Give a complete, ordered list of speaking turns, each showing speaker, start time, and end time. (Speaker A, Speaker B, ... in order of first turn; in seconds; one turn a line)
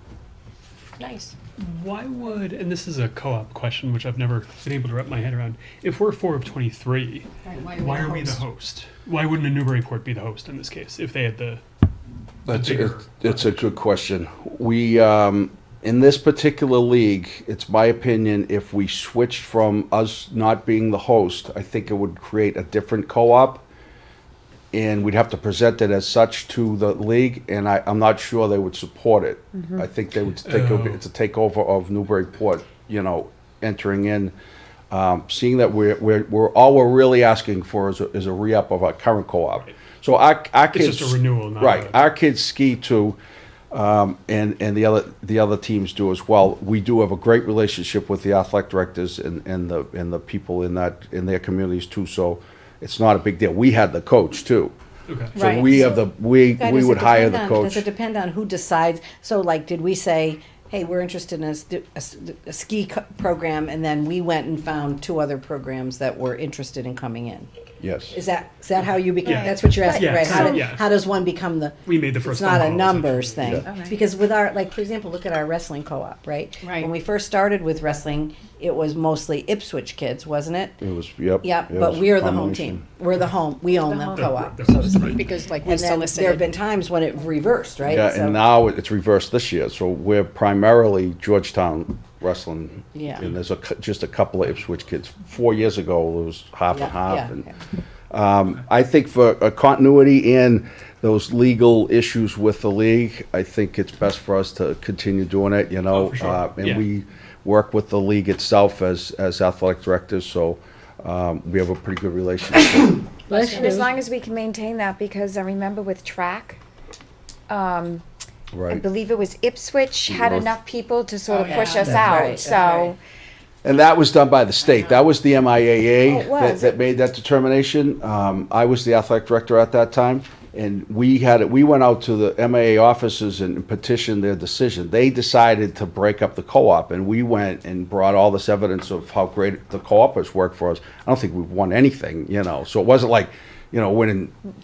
Speaker A: 1.0-1.3
Speaker B: 1.6-11.6
Speaker A: 7.5-8.4
Speaker C: 12.5-23.6
Speaker B: 12.5-13.5
Speaker C: 24.7-34.3
Speaker D: 29.5-29.9
Speaker B: 30.4-31.0
Speaker C: 34.9-43.2
Speaker B: 40.7-42.0
Speaker C: 43.7-54.7
Speaker B: 55.1-55.4
Speaker C: 55.3-57.9
Speaker A: 55.3-55.8
Speaker E: 56.5-67.5
Speaker C: 67.8-68.2
Speaker E: 68.1-80.8
Speaker B: 69.2-70.9
Speaker D: 69.8-70.6
Speaker B: 71.8-73.7
Speaker D: 73.7-74.0
Speaker A: 76.6-76.9
Speaker C: 80.8-82.8
Speaker E: 81.4-88.4
Speaker B: 83.9-85.2
Speaker A: 85.1-86.5
Speaker C: 87.9-97.5
Speaker E: 92.9-93.2
Speaker E: 96.7-97.4
Speaker C: 98.1-113.0
Speaker B: 105.9-106.8
Speaker A: 113.3-113.9
Speaker D: 113.3-116.6
Speaker D: 117.5-118.0
Speaker C: 118.5-118.8
Speaker D: 118.7-123.0
Speaker C: 120.1-120.5
Speaker A: 121.3-122.1
Speaker E: 121.4-122.9
Speaker C: 121.9-122.2
Speaker C: 123.6-144.3
Speaker D: 126.0-126.8